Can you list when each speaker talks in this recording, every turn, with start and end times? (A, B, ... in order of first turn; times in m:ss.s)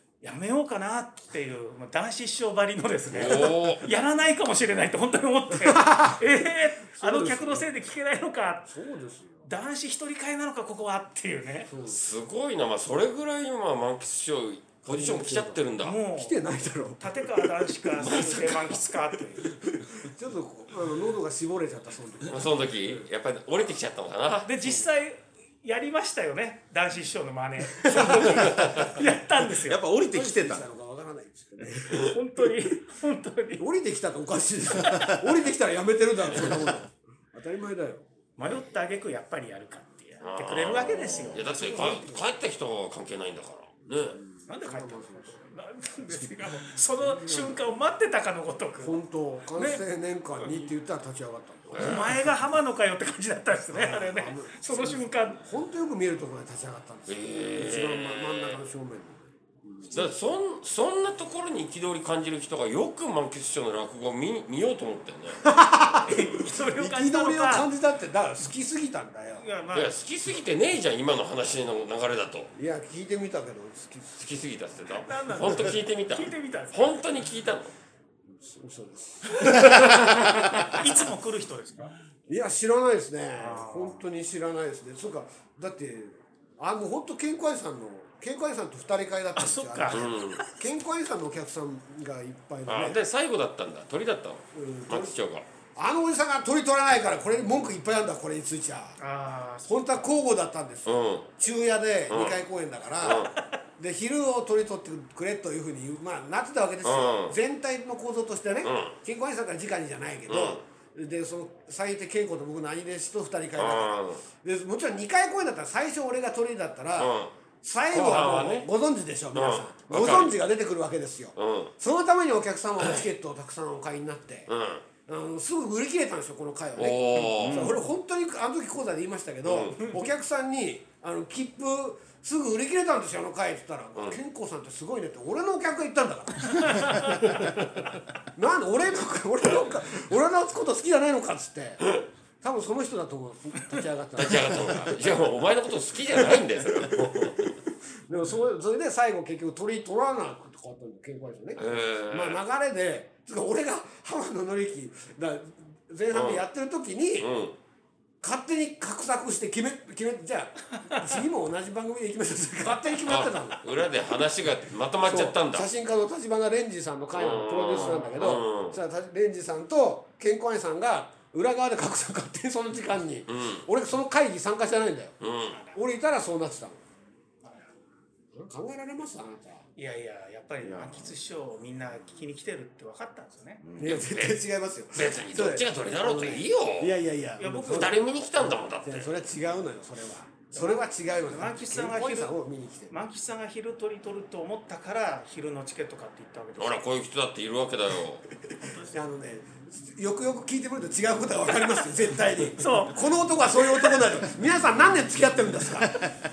0:00.2-0:08.7 A
0:03.1-0:03.8 B
0:05.6-0:06.2 C
0:06.9-0:07.7 C
0:08.6-0:09.5 C
0:09.4-0:11.7 A
0:11.6-0:12.0 C
0:11.8-0:16.0 B
0:14.9-0:18.8 C
0:15.8-0:16.4 A
0:17.0-0:19.6 A
0:19.4-0:23.1 C
0:22.3-0:24.6 B
0:24.4-0:29.8 A
0:27.8-0:28.8 C
0:28.3-0:28.9 B
0:29.5-0:30.7 D
0:30.1-0:32.6 C
0:32.0-0:33.6 A
0:33.6-0:38.1 C
0:34.8-0:35.3 D
0:38.4-0:41.8 A
0:40.2-0:44.2 B
0:41.2-0:42.3 C
0:44.1-0:45.4 C
0:44.5-0:49.0 A
0:47.0-0:47.6 C
0:48.8-0:52.1 C
0:49.5-0:49.8 A
0:51.7-0:52.2 B
0:51.8-0:55.4 A
0:53.7-1:00.1 C
0:57.1-0:58.6 B
0:59.9-1:05.4 B
1:05.4-1:09.4 C
1:06.0-1:07.7 A
1:09.4-1:09.9 A
1:09.7-1:12.5 B
1:12.5-1:14.2 C
1:14.2-1:17.7 B
1:14.9-1:17.0 A
1:18.3-1:20.8 C
1:19.5-1:20.3 B
1:20.7-1:21.9 A
1:22.3-1:33.0 C
1:23.4-1:24.0 A
1:29.4-1:30.5 A
1:29.9-1:30.4 B
1:32.7-1:35.4 B
1:34.5-1:35.2 C
1:35.8-1:39.0 C
1:39.0-1:40.0 A
1:39.6-2:04.5 C
1:40.9-1:41.3 B
1:42.1-1:42.4 B
1:43.0-1:43.3 B
1:46.8-1:47.4 B
1:48.6-1:49.0 B
1:50.3-1:50.6 B
1:53.6-1:54.2 B
1:57.0-1:57.3 B
1:57.9-1:58.7 B
1:59.3-2:00.4 B
2:01.4-2:01.7 B
2:04.5-2:04.9 B
2:05.1-2:17.5 C
2:06.8-2:07.8 B
2:07.3-2:07.8 D
2:09.4-2:09.8 B
2:16.6-2:17.2 A
2:17.1-2:17.7 B
2:18.3-2:21.9 C
2:22.4-2:25.2 C
2:24.2-2:27.6 B
2:27.9-2:37.3 C
2:31.6-2:32.4 B
2:36.1-2:36.4 B
2:37.2-2:37.6 B
2:38.2-2:43.6 C
2:43.0-2:45.7 B
2:45.0-2:55.2 C
2:47.1-2:48.8 B
2:47.8-2:48.2 A
2:53.3-2:53.6 B
2:55.2-2:55.6 B
2:55.5-2:55.8 A
2:55.7-2:56.8 C
2:57.4-2:57.7 A
2:58.3-2:59.6 C
2:59.8-3:03.6 A
3:00.6-3:01.2 D
3:03.6-3:04.0 D
3:03.8-3:12.9 C
3:03.8-3:04.4 B
3:04.9-3:07.0 B
3:07.4-3:08.0 A
3:07.6-3:09.1 B
3:10.5-3:12.3 A
3:12.9-3:16.8 A
3:16.6-3:18.2 B
3:18.6-3:26.0 C
3:18.6-3:18.9 A
3:22.6-3:23.0 A